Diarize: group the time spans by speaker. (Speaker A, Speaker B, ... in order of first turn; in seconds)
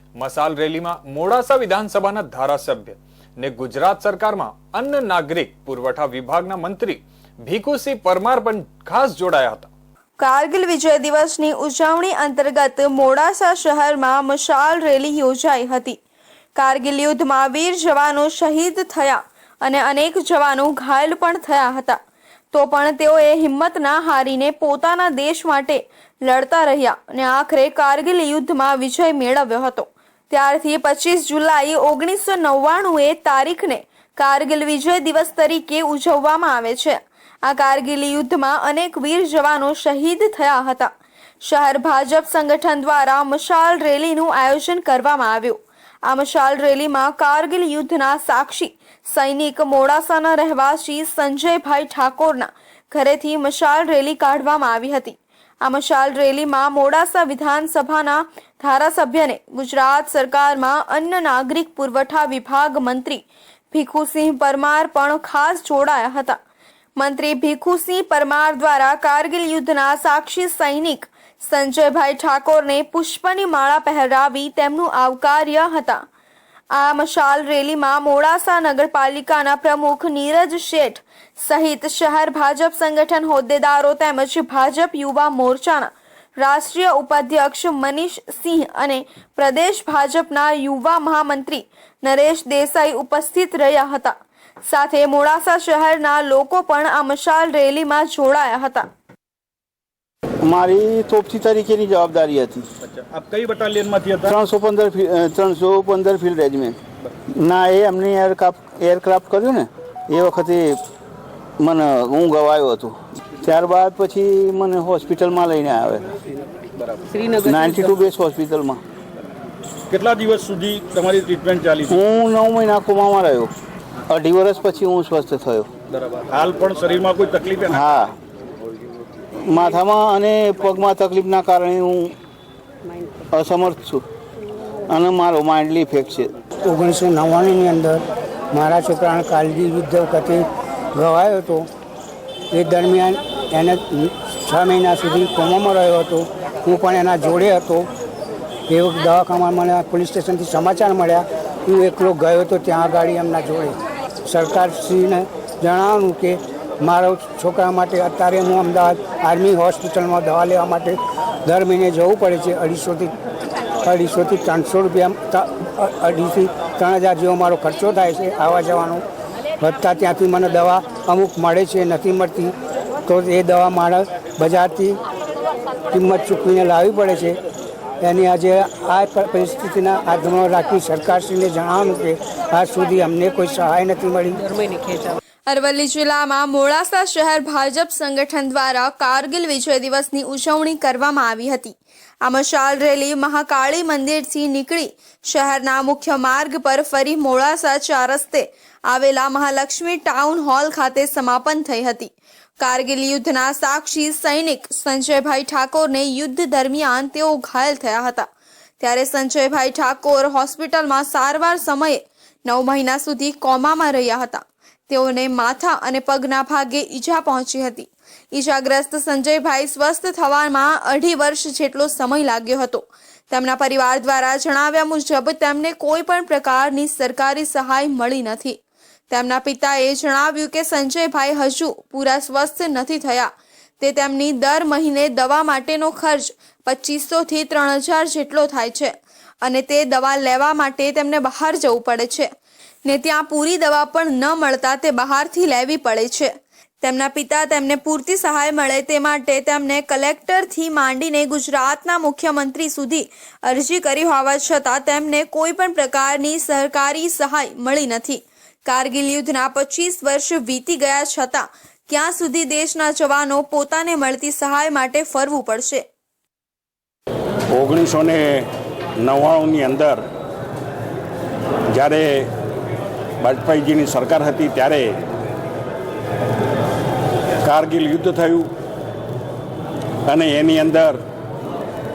Speaker A: 0.2-9.7
Speaker B: 10.2-16.0, 16.6-22.0, 22.5-40.9, 41.4-66.4, 67.0-76.0, 76.7-94.2, 94.7-98.8, 185.5-228.6, 229.1-242.3, 242.8-265.9
Speaker C: 100.4-102.7, 104.2-106.8, 107.4-110.8, 111.6-116.1, 117.3-118.8, 121.9-123.5, 124.1-125.7, 127.7-128.2, 129.4-132.1, 133.3-134.0, 134.9-136.3
Speaker D: 102.8-104.4, 119.9-122.0, 126.3-127.8
Speaker E: 136.7-140.4, 140.9-141.7, 142.5-147.9, 148.7-153.8, 154.3-163.1, 163.8-169.0, 169.6-172.5, 173.1-175.0, 175.9-177.4, 178.0-184.4
Speaker F: 267.5-268.5, 269.0-270.0, 271.7-272.3, 273.2-275.0, 277.4-278.5, 280.1-281.0